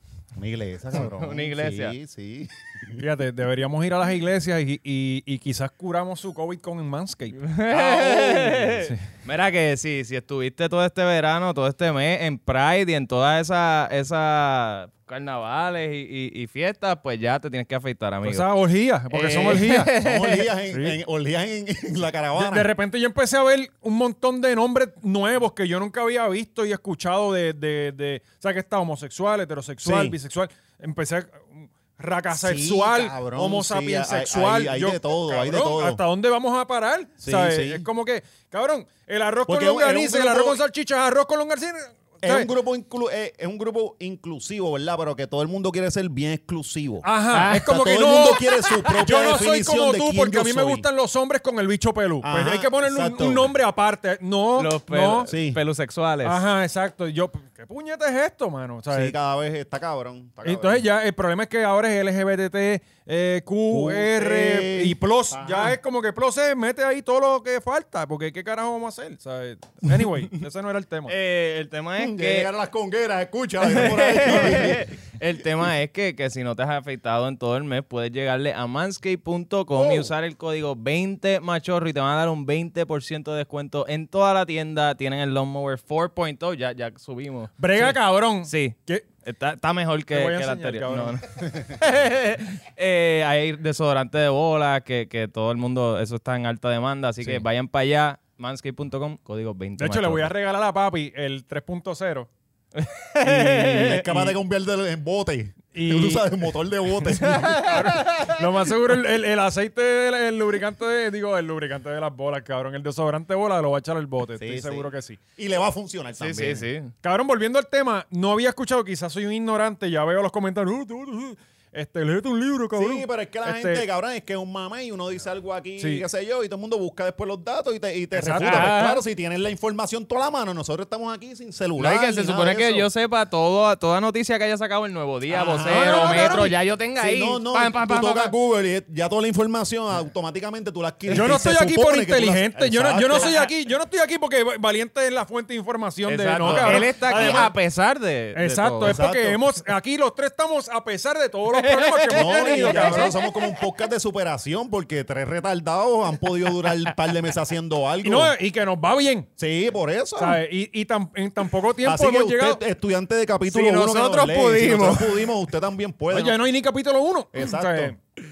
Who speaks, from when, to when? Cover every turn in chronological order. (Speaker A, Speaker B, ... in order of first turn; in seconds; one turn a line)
Speaker A: 0.4-3.0
Speaker B: 1.0-1.9
Speaker C: 3.0-9.0
Speaker B: 7.4-18.5
Speaker A: 7.9-8.2
Speaker C: 18.2-19.9
Speaker B: 19.1-20.5
Speaker A: 19.9-22.7
Speaker C: 20.7-21.0
Speaker C: 22.4-42.5
Speaker A: 29.8-30.2
Speaker A: 32.3-36.0
Speaker A: 37.2-37.9
Speaker A: 39.5-40.6
Speaker A: 42.2-50.9
Speaker C: 47.0-55.3
Speaker B: 47.3-47.8
Speaker A: 52.2-53.5
Speaker B: 54.6-56.4
Speaker A: 55.3-55.6
Speaker C: 56.2-59.1
Speaker A: 58.9-60.9
Speaker C: 60.5-71.1
Speaker A: 63.7-65.8
Speaker B: 71.1-72.5
Speaker A: 72.0-74.9
Speaker B: 73.6-100.3
Speaker C: 79.8-80.1
Speaker C: 87.6-89.1
Speaker C: 90.1-91.2
Speaker C: 99.8-102.3
Speaker B: 102.8-104.1
Speaker C: 103.2-104.3
Speaker A: 103.5-107.8
Speaker C: 105.7-106.3
Speaker C: 107.0-115.2
Speaker B: 107.3-108.3
Speaker A: 114.3-116.7
Speaker B: 116.2-116.9
Speaker C: 117.0-123.8
Speaker A: 122.8-132.9
Speaker C: 125.8-126.0
Speaker C: 128.1-128.8
Speaker B: 128.4-129.0
Speaker B: 131.8-138.3
Speaker A: 135.3-143.5
Speaker C: 135.6-136.5
Speaker C: 141.1-147.6
Speaker B: 146.1-149.0
Speaker A: 146.4-147.5
Speaker C: 148.3-153.1
Speaker A: 148.8-149.4
Speaker B: 151.5-153.3
Speaker A: 152.1-158.3
Speaker C: 158.0-159.3
Speaker A: 159.4-160.4
Speaker C: 160.2-162.6
Speaker A: 161.8-166.4
Speaker B: 163.5-165.3
Speaker C: 166.1-167.9
Speaker A: 167.3-168.0